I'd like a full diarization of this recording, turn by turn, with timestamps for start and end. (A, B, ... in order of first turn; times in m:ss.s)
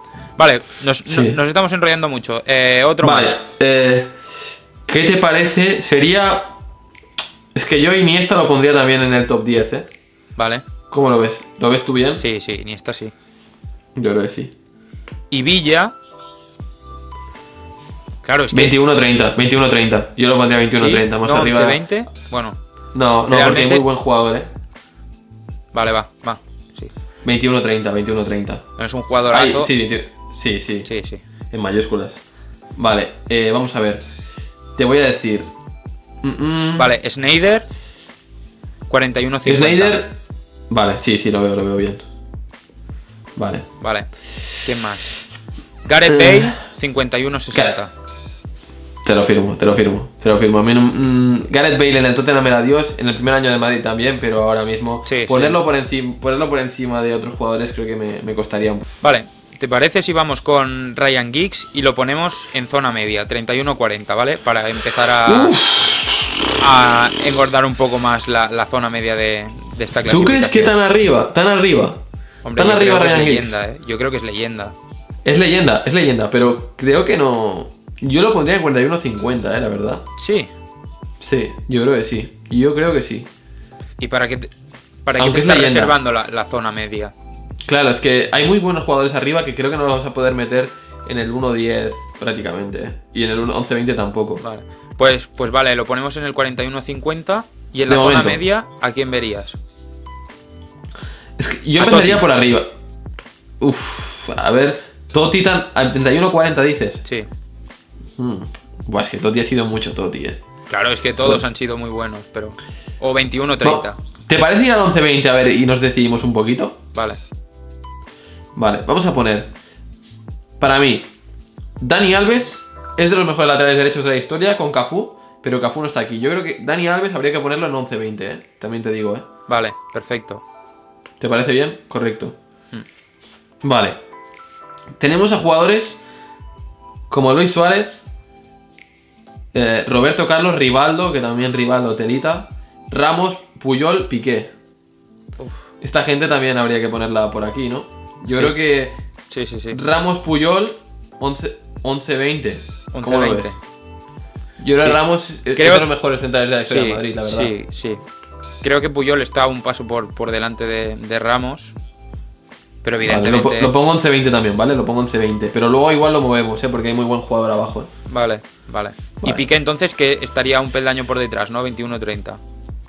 0:00.4-0:03.4 A
0:01.1-0:01.4 B
0:03.0-0:04.2 B
0:04.9-0:06.5 B
0:07.5-0:09.9 B
0:10.4-0:10.6 A
0:10.9-0:12.2 B
0:12.2-0:13.1 A
0:14.0-0:14.5 B
0:15.3-0:15.9 A
0:18.2-0:18.8 A
0:18.5-0:21.8 B
0:20.7-0:22.6 A
0:22.9-0:24.5 B
0:23.3-0:23.8 A
0:25.7-0:26.9 A
0:27.2-0:28.6 B
0:28.8-0:29.7 A
0:29.3-0:30.9 B
0:30.8-0:31.2 A
0:31.5-0:32.2 B
0:32.8-0:34.0 B
0:34.8-0:35.5 B
0:36.2-0:36.9 B
0:36.8-0:37.6 A
0:38.9-0:40.0 A
0:39.4-0:40.1 B
0:40.7-0:42.0 B
0:43.4-0:43.7 B
0:43.8-0:45.2 A
0:45.8-0:47.9 A
0:46.0-0:46.5 B
0:49.0-0:58.8 B
0:55.0-0:55.6 A
0:59.0-1:05.6 A
1:05.2-1:06.2 B
1:06.6-1:10.7 A
1:10.1-1:12.0 B
1:12.4-1:14.7 A
1:12.6-1:13.6 B
1:15.2-1:20.0 B
1:20.2-1:20.5 A
1:21.2-1:23.3 B
1:24.0-1:24.5 A
1:25.0-1:27.1 A
1:25.2-1:25.9 B
1:27.6-1:34.4 B
1:34.4-1:39.6 A
1:37.9-1:38.4 B
1:41.4-1:42.7 B
1:41.8-1:42.2 A
1:43.6-1:47.0 B
1:48.2-1:50.4 B
1:50.7-1:54.0 A
1:53.6-1:56.8 B
1:56.9-1:57.2 A
1:58.6-1:59.5 B
2:00.6-2:01.1 B
2:01.8-2:09.3 B
2:09.5-2:10.4 A
2:11.2-2:12.4 B
2:13.6-2:14.0 B
2:15.0-2:16.0 B
2:17.1-2:18.0 B
2:19.5-2:24.5 B
2:25.8-2:28.9 B
2:29.3-2:29.8 A
2:29.7-2:33.5 B
2:32.9-2:33.6 A
2:34.6-2:37.5 B
2:35.5-2:35.9 A
2:36.7-2:38.0 A
2:38.6-2:41.7 A
2:42.8-2:43.7 A
2:43.0-2:47.9 B
2:48.1-2:52.4 A
2:49.2-2:49.4 B